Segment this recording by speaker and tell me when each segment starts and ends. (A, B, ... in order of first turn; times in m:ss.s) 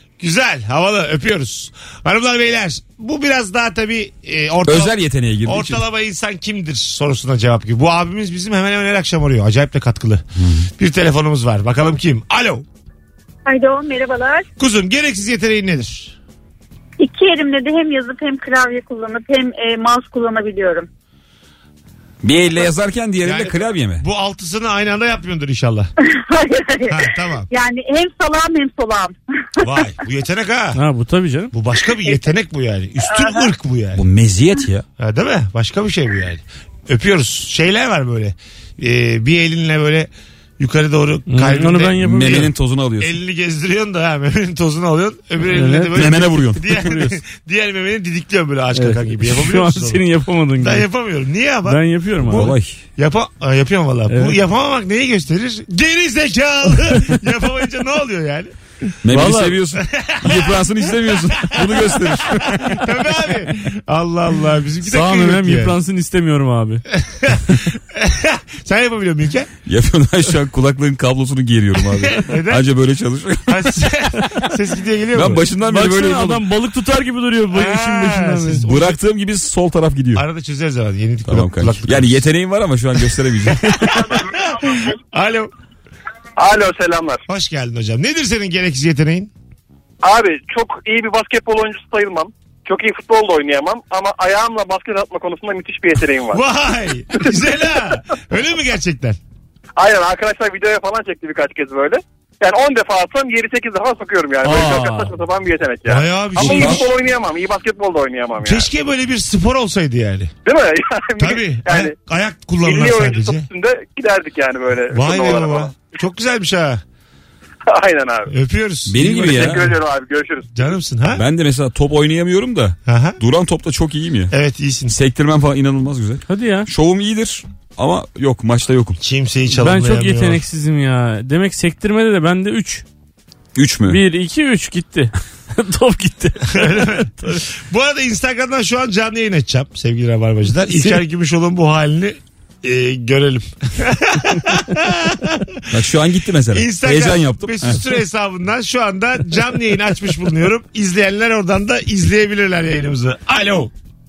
0:00.2-0:10.2 A
0:04.6-0:05.8 B
0:10.4-0:10.7 B
0:10.8-0:12.6 A
0:13.4-0:14.4 C
0:14.6-0:16.2 A
0:17.0-0:20.9 C
0:22.2-0:24.0 B
0:23.2-0:25.9 A
0:26.0-0:29.8 C
0:26.9-0:27.5 A
0:29.6-0:30.8 A
0:30.8-0:31.5 D
0:31.5-0:34.0 A
0:33.1-0:33.5 C
0:34.0-0:34.8 B
0:35.0-0:50.0 A
0:41.3-0:42.5 D
0:42.0-0:43.1 B
0:45.5-0:47.2 D
0:45.9-0:46.8 B
0:48.8-0:50.9 D
0:50.6-0:58.9 A
0:51.6-0:52.5 D
0:52.3-0:52.8 B
0:54.1-0:54.4 D
0:56.7-0:57.2 D
0:59.0-1:03.0 B
0:59.1-0:59.6 D
0:59.7-1:05.8 A
1:04.9-1:06.8 D
1:06.9-1:09.5 A
1:09.6-1:13.8 B
1:12.0-1:12.7 A
1:13.5-1:15.5 A
1:15.1-1:16.4 B
1:15.6-1:18.7 D
1:17.5-1:19.0 A
1:18.6-1:20.2 B
1:20.1-1:22.2 A
1:21.3-1:24.0 B
1:23.8-1:25.5 A
1:26.4-1:27.2 E
1:27.3-1:29.3 A
1:30.0-1:36.4 E
1:36.3-1:39.2 A
1:39.8-1:48.7 E
1:44.4-1:45.1 D
1:45.9-1:46.9 A
1:46.4-1:46.8 B
1:48.4-1:50.3 A
1:50.4-1:51.9 E
1:51.2-1:53.5 A
1:52.6-1:55.8 E
1:54.9-1:56.8 A
1:57.7-1:58.3 E
1:58.3-1:59.8 A
1:58.9-1:59.8 B
1:59.0-2:00.8 E
2:00.6-2:01.2 A
2:01.1-2:04.3 B
2:02.9-2:03.2 A
2:04.3-2:04.9 A
2:04.9-2:09.0 B
2:06.3-2:06.7 D
2:09.0-2:10.4 A
2:09.6-2:12.8 D
2:13.6-2:14.0 B
2:13.9-2:17.5 D
2:16.5-2:25.6 A
2:20.7-2:21.0 D
2:25.7-2:27.8 B
2:26.5-2:33.7 A